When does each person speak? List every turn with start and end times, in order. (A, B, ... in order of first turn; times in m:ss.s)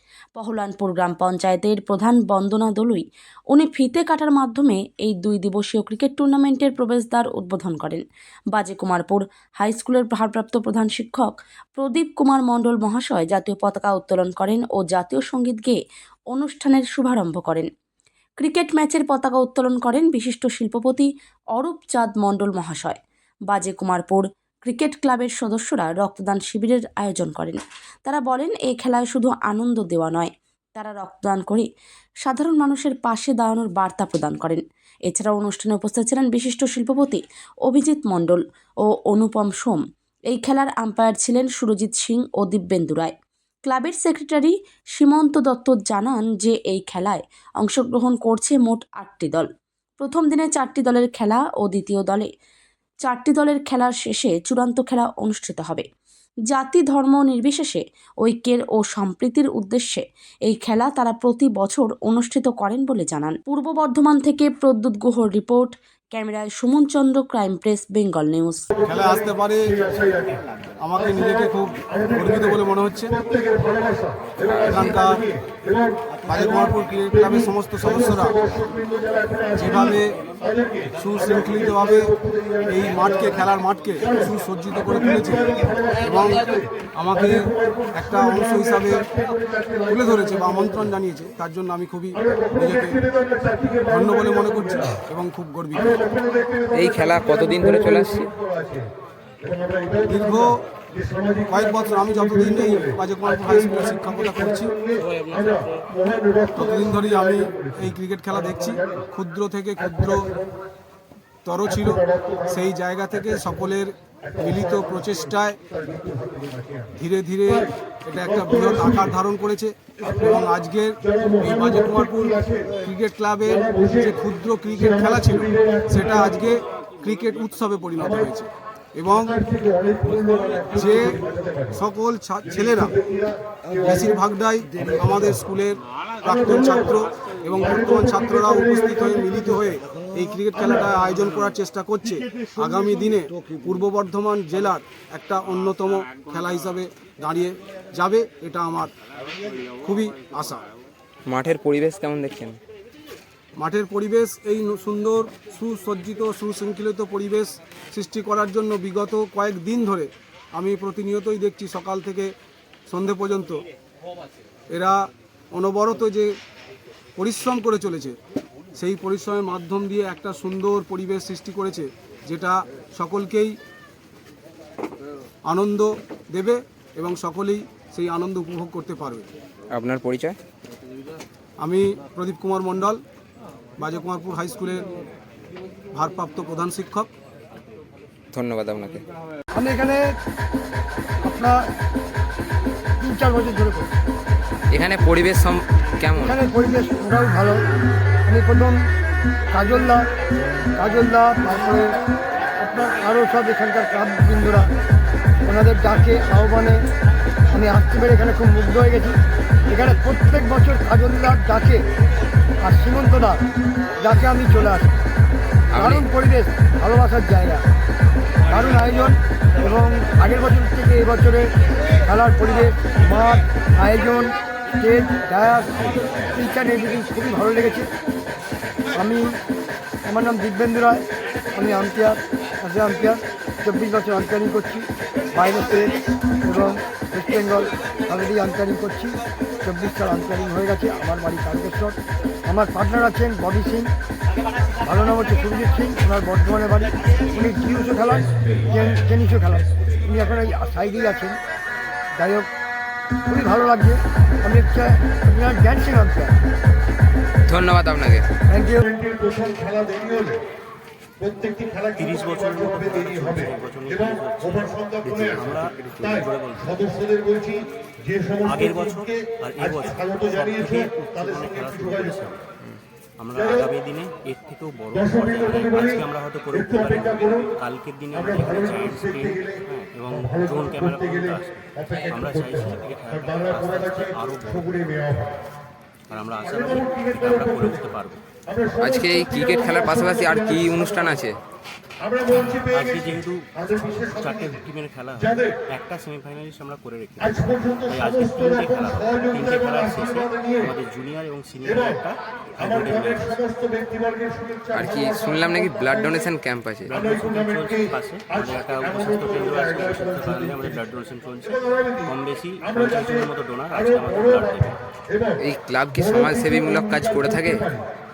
0:00.4-0:15.8 A
0:16.3-0:17.7 A
0:18.4-0:31.7 A
0:32.2-0:43.1 A
0:43.6-0:49.5 A
0:50.0-0:52.3 A
0:53.0-0:55.8 A
0:56.5-1:08.7 A
1:08.8-1:09.8 B
1:09.8-1:10.3 C
1:10.8-1:13.2 B
1:13.2-1:14.5 C
1:14.5-1:15.2 B
1:15.1-1:16.2 C
1:16.2-1:18.4 B
1:18.4-1:19.6 C
1:19.6-1:20.2 B
1:20.5-1:20.9 C
1:21.0-1:22.1 B
1:22.1-1:22.6 C
1:22.6-1:26.4 B
1:25.5-1:26.8 C
1:26.9-1:29.1 B
1:27.4-1:27.9 C
1:29.0-1:30.5 C
1:29.9-1:33.0 B
1:32.2-1:34.9 C
1:33.9-1:36.0 B
1:35.9-1:36.7 C
1:36.7-1:38.3 D
1:38.2-1:38.8 C
1:39.4-1:40.2 C
1:40.1-1:40.6 B
1:41.0-1:41.5 C
1:41.5-1:44.7 B
1:44.6-1:46.7 C
1:46.5-1:50.3 B
1:47.5-1:47.8 C
1:51.4-1:55.6 B
1:55.7-1:56.9 C
1:56.9-2:09.4 B
2:01.1-2:01.4 C
2:03.7-2:04.0 C
2:05.6-2:05.9 C
2:09.3-2:11.7 C
2:10.7-2:11.2 B
2:11.7-2:13.0 B
2:13.0-2:13.8 C
2:13.8-2:28.9 B
2:29.8-2:30.6 B
2:31.3-2:32.6 D
2:33.6-2:42.3 B
2:42.9-2:43.6 B
2:44.7-2:45.0 B
2:45.5-2:46.3 B
2:47.2-2:48.2 B
2:48.8-2:53.6 B
2:55.5-2:59.3 B
2:59.7-3:00.4 D
3:01.6-3:03.0 B
3:03.8-3:04.8 B
3:05.9-3:07.1 B
3:08.3-3:09.0 D
3:09.5-3:10.0 E
3:11.2-3:11.6 E
3:13.0-3:13.9 E
3:14.7-3:16.4 D
3:16.2-3:17.6 E
3:18.2-3:18.8 E
3:19.5-3:20.1 E
3:20.8-3:22.0 E
3:22.6-3:24.7 E
3:25.4-3:26.8 E
3:27.5-3:29.2 E
3:29.7-3:31.8 E
3:32.6-3:33.4 E
3:34.0-3:35.0 E
3:35.7-3:36.0 D
3:35.7-3:37.6 E
3:38.5-3:47.9 E
3:48.9-3:49.3 E
3:50.0-4:03.9 E
4:04.8-4:11.4 E
4:12.2-4:12.5 E
4:13.3-4:16.4 E
4:17.5-4:18.3 D
4:18.5-4:18.8 E
4:18.9-4:20.4 C
4:21.2-4:23.3 C
4:22.0-4:26.8 F
4:24.6-4:25.4 C
4:26.7-4:32.1 C
4:28.4-4:32.4 F
4:33.2-4:44.7 F
4:35.1-4:35.6 C
4:36.7-4:37.1 C
4:38.4-4:39.6 C
4:40.2-4:41.1 C
4:42.0-4:42.6 C
4:43.3-4:45.4 C
4:46.1-4:48.2 F
4:46.6-4:47.7 C
4:48.5-4:51.0 C
4:48.8-4:51.4 D
4:52.0-4:52.8 C
4:52.3-5:03.4 F
4:53.7-4:54.4 C
4:57.3-5:00.6 C
5:02.7-5:06.1 C
5:04.7-5:06.9 D
5:06.8-5:14.8 F
5:07.0-5:07.7 C
5:09.0-5:10.3 C
5:11.6-5:12.0 C
5:13.9-5:14.7 C
5:15.4-5:17.7 D